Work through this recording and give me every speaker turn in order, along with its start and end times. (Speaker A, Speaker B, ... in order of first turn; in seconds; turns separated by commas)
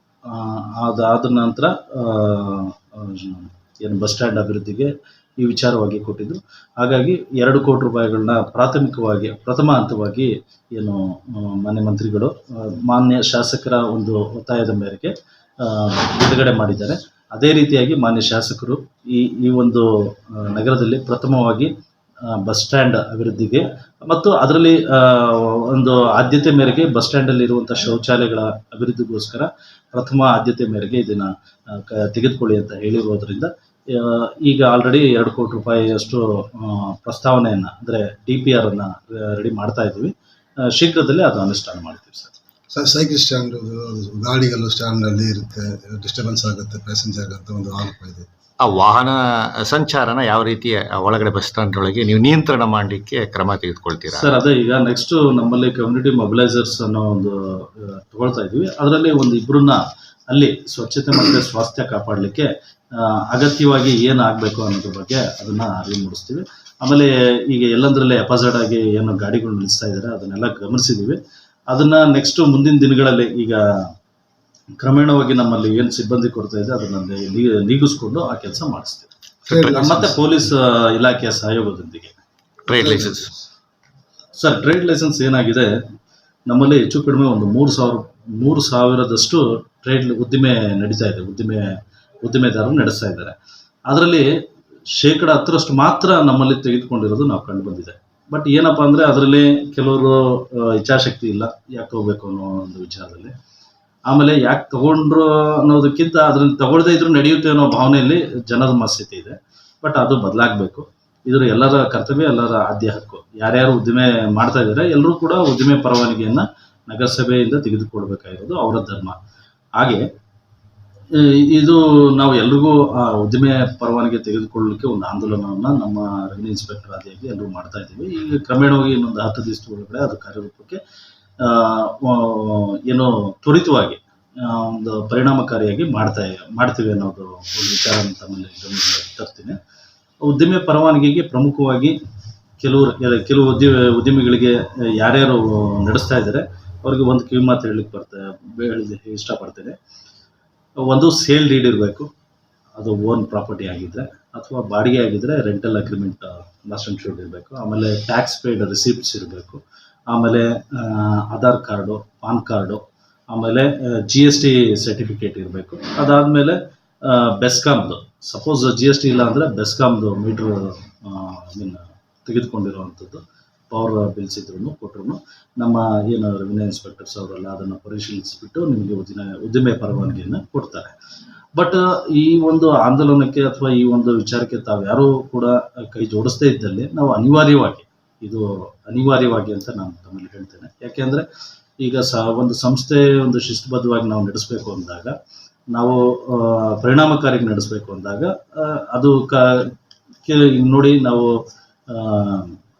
Speaker A: 0.3-21.7, Speaker A: 22.3-40.1, Speaker A: 40.7-42.3, Speaker B: 42.7-48.3, Speaker C: 48.6-54.3, Speaker A: 54.1-71.2, Speaker A: 71.7-73.6, Speaker A: 74.8-79.1, Speaker C: 79.5-80.0, Speaker B: 79.5-80.1, Speaker A: 79.7-82.1, Speaker C: 82.7-83.3, Speaker B: 82.7-83.4, Speaker A: 84.3-85.7, Speaker A: 86.5-93.3, Speaker A: 93.9-94.3, Speaker A: 94.9-103.3, Speaker A: 104.1-119.2, Speaker A: 119.8-120.0, Speaker A: 121.1-130.8, Speaker A: 131.4-139.6, Speaker A: 140.2-142.0, Speaker A: 142.6-149.8, Speaker A: 150.8-152.1, Speaker A: 152.8-180.9, Speaker A: 181.6-191.2, Speaker A: 191.8-195.1, Speaker A: 195.7-199.7, Speaker A: 200.2-202.5